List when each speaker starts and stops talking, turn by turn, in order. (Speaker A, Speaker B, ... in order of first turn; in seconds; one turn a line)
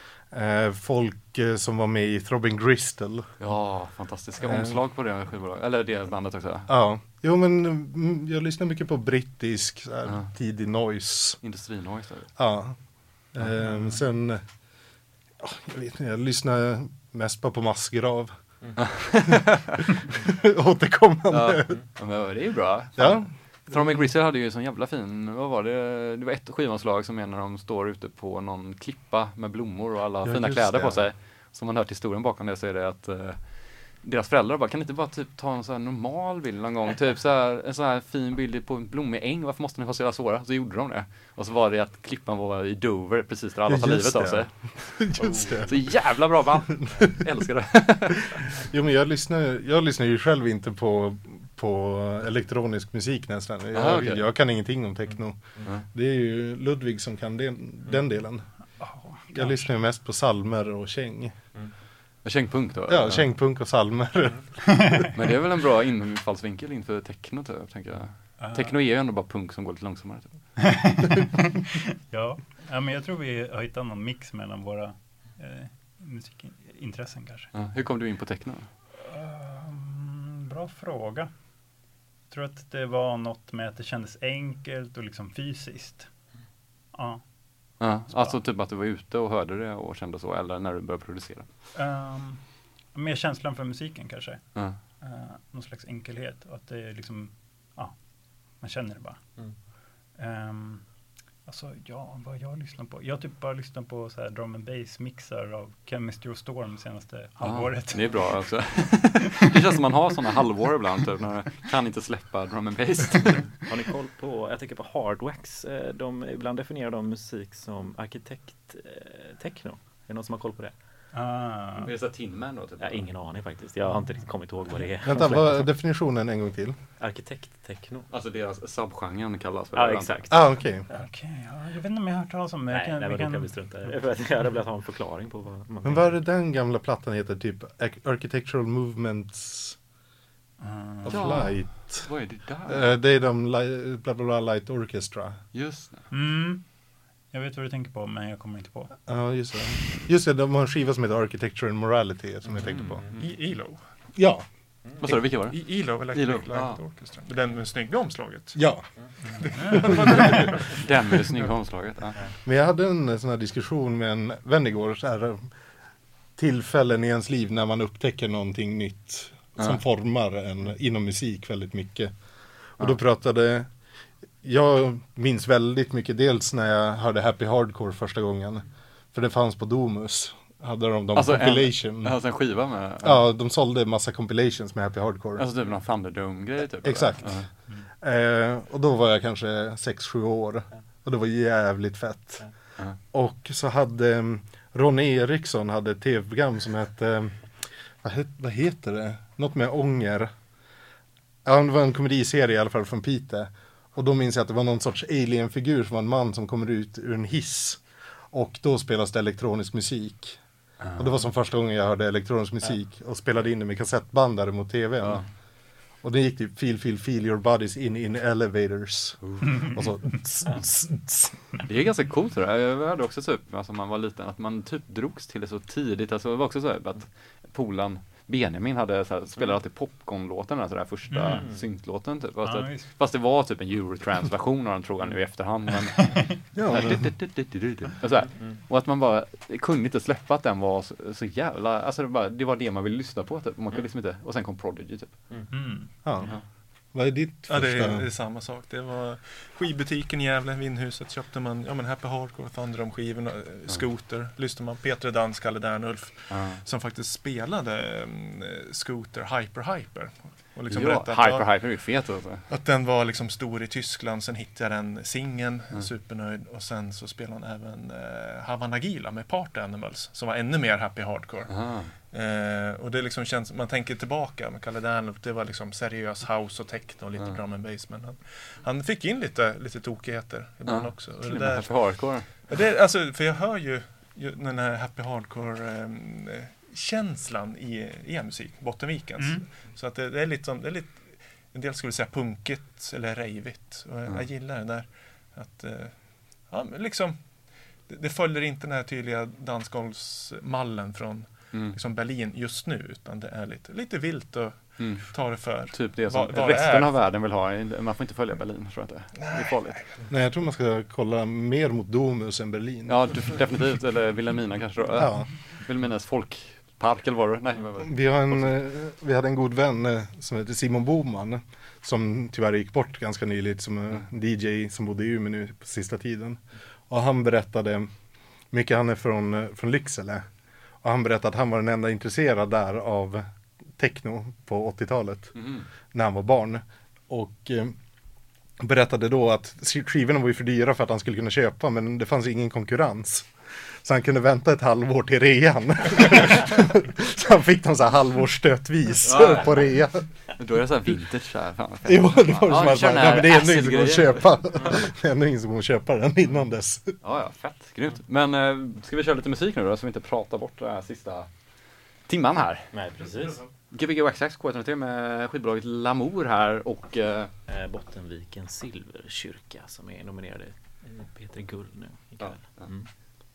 Speaker A: 0.3-3.3
Speaker B: 3.4-6.7
Speaker A: 4.4-4.8
Speaker A: 6.7-11.4
Speaker B: 10.1-10.3
Speaker B: 11.4-12.3
Speaker A: 12.4-14.4
Speaker A: 15.4-18.3
Speaker C: 18.6-18.9
Speaker B: 18.8-19.6
Speaker A: 20.2-21.8
Speaker B: 21.3-48.2
Speaker A: 23.0-24.0
Speaker A: 30.2-31.1
Speaker A: 43.6-46.2
Speaker C: 45.2-45.7
Speaker A: 48.6-58.5
Speaker B: 53.7-54.2
Speaker D: 58.6-59.7
Speaker A: 59.3-61.4
Speaker B: 62.2-63.4
Speaker A: 62.9-65.0
Speaker B: 65.1-70.4
Speaker D: 68.4-68.8
Speaker D: 70.7-71.4
Speaker D: 72.1-77.5
Speaker B: 77.5-78.7
Speaker D: 79.0-81.3
Speaker D: 82.3-86.2
Speaker D: 86.9-87.2
Speaker D: 87.8-88.4
Speaker B: 87.8-91.5
Speaker D: 91.7-99.2
Speaker D: 100.1-100.9
Speaker D: 101.4-109.2
Speaker B: 107.4-113.5
Speaker C: 113.6-120.8
Speaker D: 121.1-121.9
Speaker B: 121.8-123.1
Speaker C: 122.8-125.6
Speaker A: 125.0-126.8
Speaker C: 127.0-128.1
Speaker B: 128.1-130.3
Speaker C: 129.7-130.6
Speaker A: 130.3-130.8
Speaker D: 130.9-133.5
Speaker C: 132.7-136.2
Speaker A: 135.8-139.8
Speaker D: 140.6-141.5
Speaker A: 141.0-142.1
Speaker B: 141.1-142.9
Speaker A: 142.7-145.4
Speaker B: 145.5-146.1
Speaker D: 146.1-146.7
Speaker D: 147.3-148.9
Speaker A: 149.1-153.0
Speaker C: 152.5-153.2
Speaker E: 153.1-153.9
Speaker A: 154.1-154.4
Speaker B: 155.0-156.8
Speaker E: 155.2-158.7
Speaker A: 158.5-158.9
Speaker E: 159.2-160.8
Speaker D: 159.5-160.3
Speaker A: 159.9-160.4
Speaker B: 160.8-162.2
Speaker A: 162.4-165.5
Speaker A: 166.4-172.1
Speaker A: 172.8-173.7
Speaker A: 174.4-182.2
Speaker B: 181.1-183.2
Speaker A: 183.0-185.4
Speaker B: 185.4-187.5
Speaker A: 186.8-192.4
Speaker A: 193.1-200.3
Speaker A: 201.4-210.4
Speaker B: 210.8-211.1
Speaker A: 211.0-215.2
Speaker B: 215.0-215.3
Speaker A: 216.0-221.3
Speaker B: 219.2-219.7
Speaker B: 221.6-245.7
Speaker D: 231.1-231.5
Speaker C: 231.3-231.6
Speaker D: 232.4-232.9
Speaker A: 236.5-237.1
Speaker D: 245.5-246.3
Speaker A: 246.0-246.4
Speaker A: 246.9-248.0
Speaker E: 247.5-261.9
Speaker B: 256.3-256.6
Speaker B: 260.7-262.5
Speaker E: 262.5-306.9
Speaker B: 271.5-271.9
Speaker B: 280.6-282.3
Speaker D: 289.2-289.5
Speaker B: 301.5-301.8
Speaker B: 304.8-309.8
Speaker E: 309.1-309.9
Speaker A: 310.1-313.0
Speaker B: 312.9-318.5
Speaker A: 315.0-315.3
Speaker A: 317.8-327.9
Speaker A: 328.5-330.2
Speaker A: 330.8-337.8
Speaker B: 335.3-335.6
Speaker A: 338.6-343.3
Speaker A: 343.8-350.0
Speaker B: 349.0-349.8
Speaker B: 350.4-354.3
Speaker A: 351.8-356.9
Speaker B: 357.0-361.3
Speaker B: 362.1-362.7
Speaker C: 362.7-363.4
Speaker B: 363.7-367.3
Speaker C: 367.5-372.9
Speaker B: 372.2-372.7